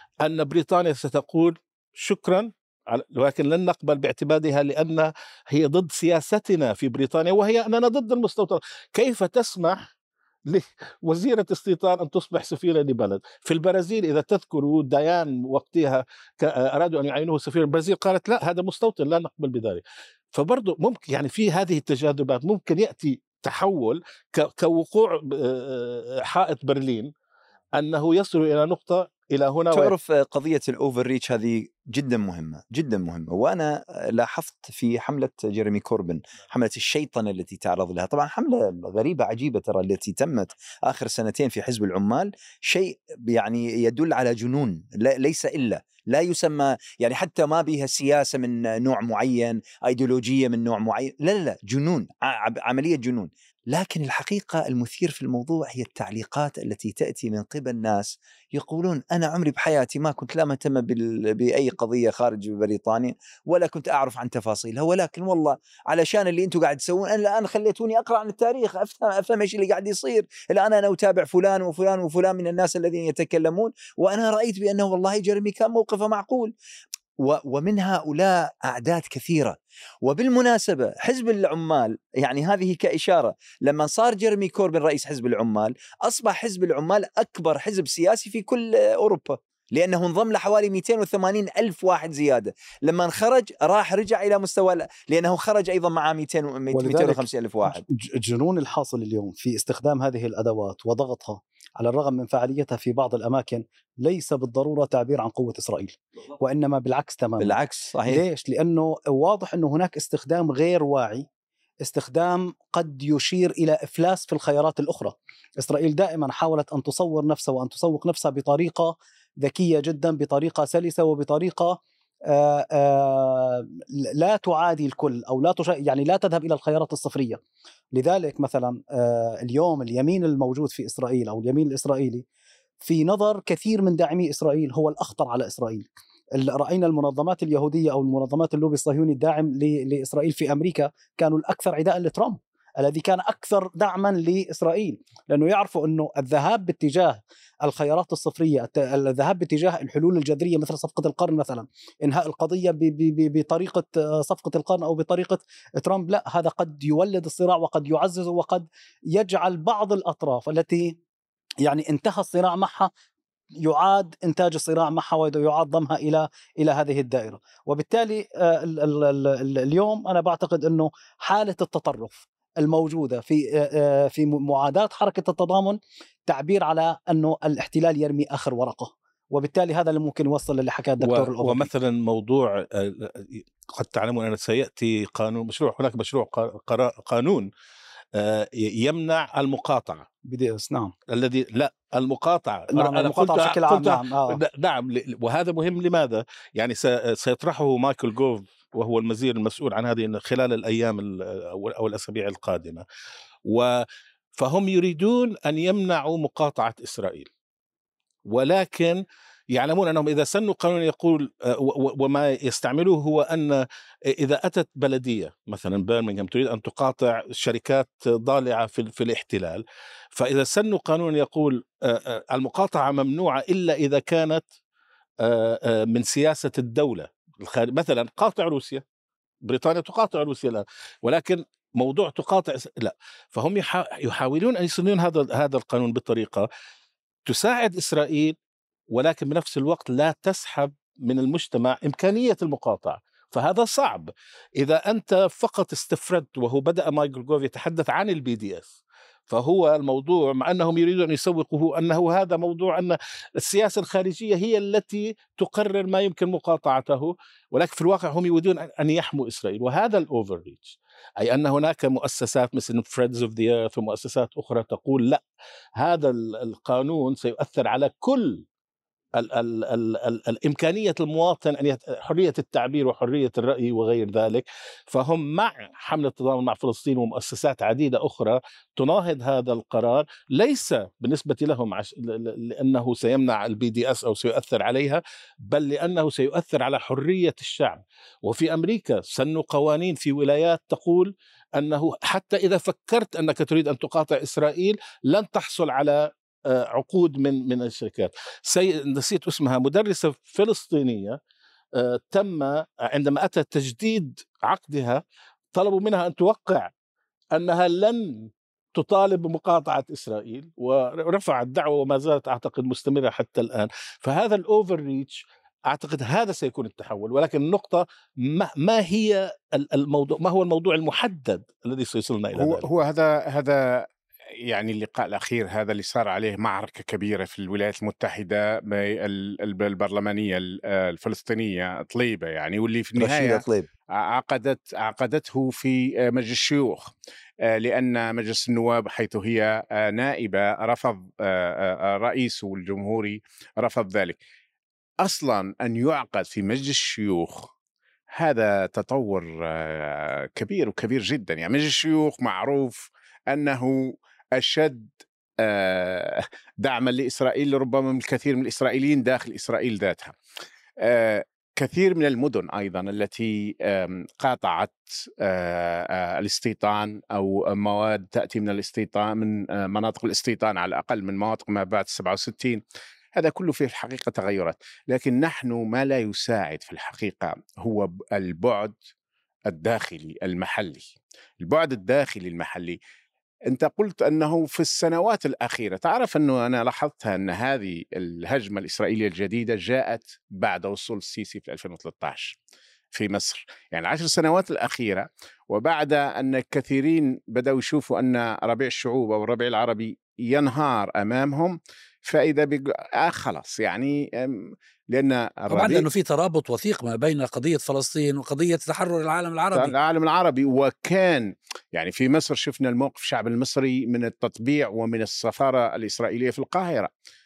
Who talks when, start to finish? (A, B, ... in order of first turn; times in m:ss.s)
0:00.2-0:09.8 A
0:10.5-0:19.8 A
0:20.3-0:27.1 A
0:27.7-0:29.9 A
0:29.7-1:16.5 B
1:17.2-1:37.8 B
1:36.7-1:51.2 C
1:47.4-1:48.2 B
1:51.8-2:07.4 C
2:07.9-2:12.2 C
2:12.8-2:41.0 C
2:41.6-2:42.9 C
2:43.6-3:01.7 C
3:01.0-3:07.5 A
3:08.1-3:10.0 A
3:10.2-3:10.9 C
3:11.1-3:22.8 A
3:12.7-3:14.4 C
3:23.4-3:23.8 A
3:24.4-3:27.3 A
3:28.3-3:33.6 A
3:34.1-3:39.6 A
3:40.1-3:44.4 A
3:45.2-3:48.8 A
3:49.4-3:56.5 A
3:57.2-3:58.3 A
3:58.9-4:08.7 A
4:09.3-4:25.2 A
4:25.8-4:28.4 A
4:29.2-5:01.2 A
5:01.8-5:05.0 A
5:05.5-5:06.7 A
5:07.3-5:22.6 A
5:22.4-5:23.8 D
5:24.5-5:33.4 D
5:33.0-5:33.7 B
5:34.0-5:36.9 D
5:37.5-5:44.2 D
5:45.0-5:47.5 D
5:48.1-5:53.8 D
5:54.4-6:00.2 D
6:00.8-6:12.6 D
6:13.2-6:18.7 D
6:19.5-6:20.8 D
6:21.4-6:22.8 D
6:23.5-6:32.4 D
6:32.9-6:45.9 D
6:45.5-6:49.7 E
6:49.5-6:56.9 D